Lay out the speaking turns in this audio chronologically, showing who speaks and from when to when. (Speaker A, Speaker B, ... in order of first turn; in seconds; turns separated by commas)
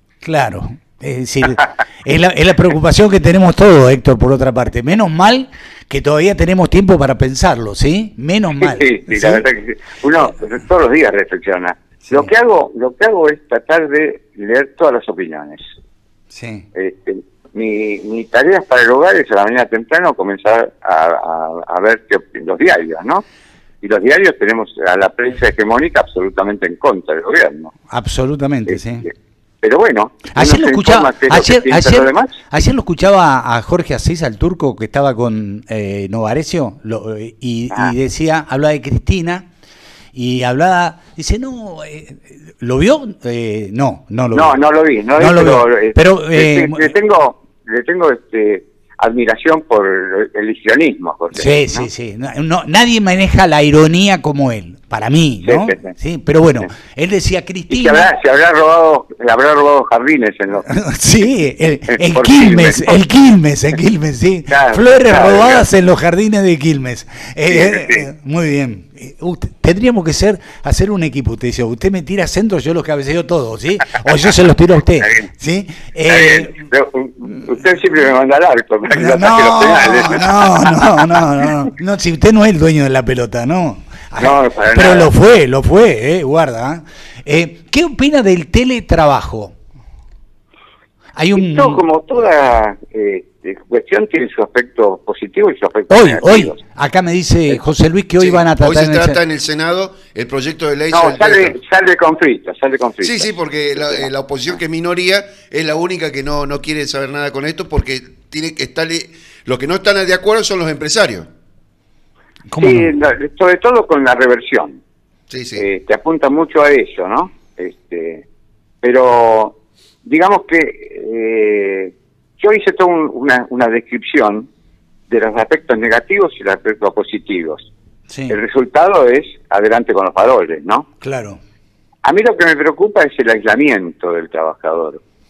Speaker A: 0.2-9.4, Speaker B: 8.5-15.6, Speaker A: 16.3-16.6, Speaker B: 16.7-23.2, Speaker B: 23.8-27.7, Speaker A: 27.9-29.1, Speaker B: 28.7-29.1, Speaker B: 29.6-32.4, Speaker A: 30.3-39.5, Speaker A: 40.1-44.6, Speaker B: 44.3-51.9, Speaker A: 45.1-46.9, Speaker A: 51.3-58.1, Speaker B: 55.4-55.9, Speaker B: 57.7-60.7, Speaker A: 60.7-76.6, Speaker B: 61.9-63.0, Speaker B: 64.5-65.7, Speaker B: 67.5-68.1, Speaker B: 75.0-75.3, Speaker B: 76.0-81.7, Speaker A: 78.9-89.5, Speaker B: 84.2-85.1, Speaker A: 91.2-91.8, Speaker B: 91.3-96.6, Speaker A: 95.9-99.2, Speaker C: 98.2-101.6, Speaker B: 100.9-104.6, Speaker C: 103.0-111.3, Speaker A: 112.5-112.9, Speaker B: 112.6-114.8, Speaker C: 115.3-115.7, Speaker B: 115.5-118.2, Speaker B: 118.8-124.5, Speaker B: 125.1-127.7, Speaker A: 128.1-128.4, Speaker B: 128.3-130.9, Speaker A: 131.0-131.4, Speaker B: 132.0-135.0